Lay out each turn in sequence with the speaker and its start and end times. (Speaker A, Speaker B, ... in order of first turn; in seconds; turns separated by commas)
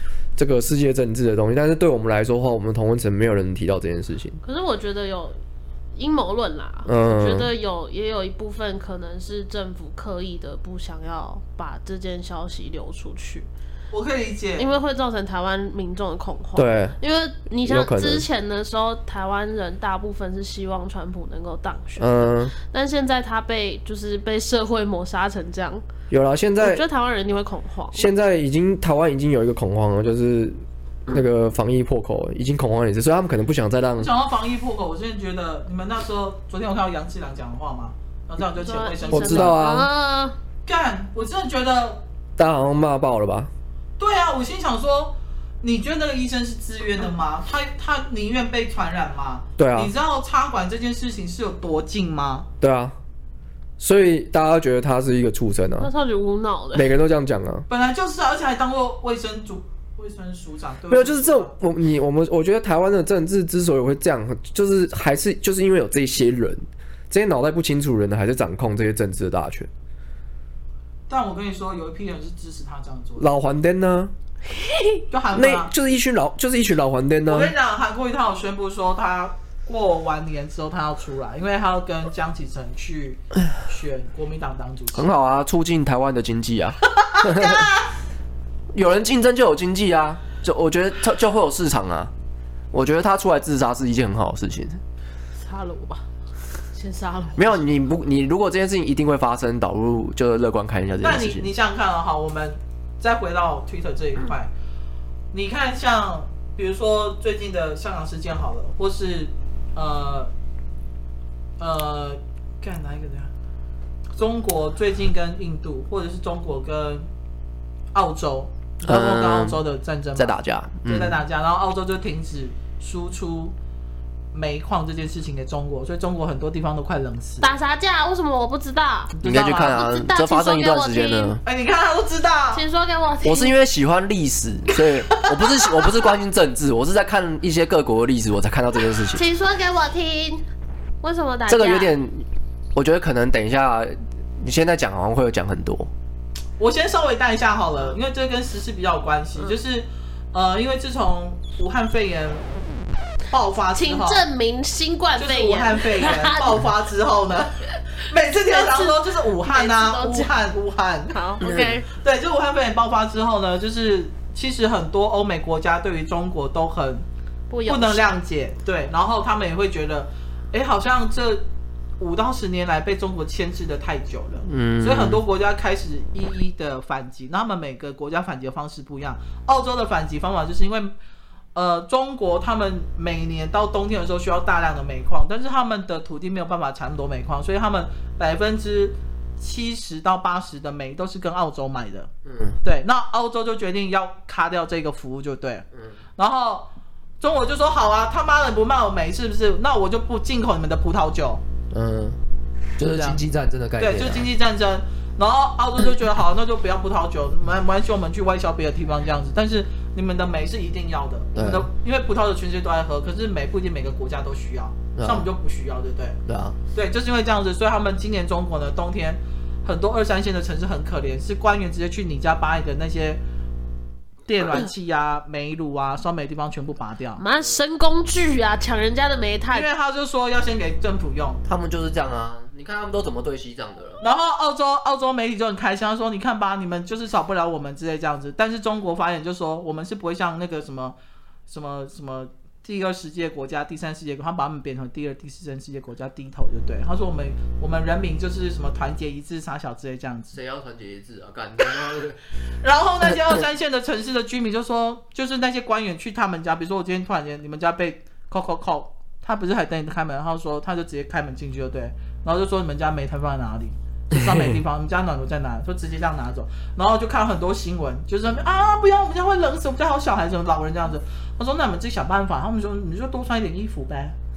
Speaker A: 0.3-4.4, Speaker B: 4.4-5.4, Speaker B: 6.0-13.5, Speaker A: 6.8-7.5, Speaker C: 13.9-14.7, Speaker B: 14.6-25.8, Speaker A: 16.6-17.0, Speaker A: 17.6-18.2, Speaker A: 22.0-22.5, Speaker A: 26.1-26.8, Speaker B: 26.6-28.1, Speaker A: 27.9-34.1, Speaker C: 34.0-39.5, Speaker B: 38.5-40.4, Speaker A: 39.1-39.9, Speaker C: 40.6-42.0, Speaker A: 42.4-43.5, Speaker C: 44.0-52.5, Speaker A: 49.6-49.9, Speaker A: 52.6-53.0, Speaker A: 53.8-55.9, Speaker B: 55.8-56.9, Speaker A: 56.7-57.6, Speaker C: 57.7-61.5, Speaker A: 60.9-69.7, Speaker C: 71.1-73.3, Speaker A: 73.2-74.1, Speaker B: 74.5-75.0, Speaker C: 75.1-75.7, Speaker A: 75.3-77.5, Speaker C: 77.3-85.1, Speaker A: 84.9-87.7, Speaker C: 87.0-87.9, Speaker A: 88.7-92.1, Speaker A: 92.7-94.8, Speaker B: 95.4-96.0, Speaker B: 96.7-97.6, Speaker A: 97.3-101.5, Speaker C: 101.0-104.5, Speaker C: 105.3-110.3, Speaker C: 111.6-113.3, Speaker C: 114.2-117.1, Speaker C: 117.9-123.5, Speaker A: 118.8-119.6, Speaker A: 120.2-121.2, Speaker C: 124.3-127.5, Speaker B: 127.4-129.2, Speaker C: 129.2-129.8, Speaker A: 129.2-131.4, Speaker B: 129.7-131.4, Speaker C: 131.4-132.6, Speaker B: 132.5-133.5, Speaker A: 133.2-139.2, Speaker C: 135.2-135.7, Speaker B: 139.1-140.4, Speaker B: 141.0-141.9, Speaker A: 141.5-145.9, Speaker C: 146.6-152.4, Speaker C: 153.3-154.2, Speaker B: 153.7-156.6, Speaker C: 155.2-161.2, Speaker B: 158.3-160.3, Speaker B: 161.1-161.9, Speaker A: 161.4-161.8, Speaker C: 161.9-167.0, Speaker B: 167.5-168.1, Speaker C: 167.7-171.4, Speaker C: 172.0-180.9, Speaker A: 174.4-175.2, Speaker C: 181.5-192.1, Speaker A: 192.2-192.6, Speaker C: 192.6-195.7, Speaker C: 196.2-201.4, Speaker A: 201.7-202.2, Speaker A: 202.8-204.3, Speaker C: 202.8-203.2, Speaker C: 203.8-216.2, Speaker A: 211.3-211.7, Speaker A: 214.9-215.3, Speaker A: 216.2-216.6, Speaker C: 216.7-223.2, Speaker C: 224.3-227.2, Speaker B: 227.2-229.7, Speaker C: 229.5-231.4, Speaker A: 231.4-234.0, Speaker C: 234.0-241.0, Speaker C: 241.5-250.4, Speaker A: 250.3-252.2, Speaker C: 252.6-274.1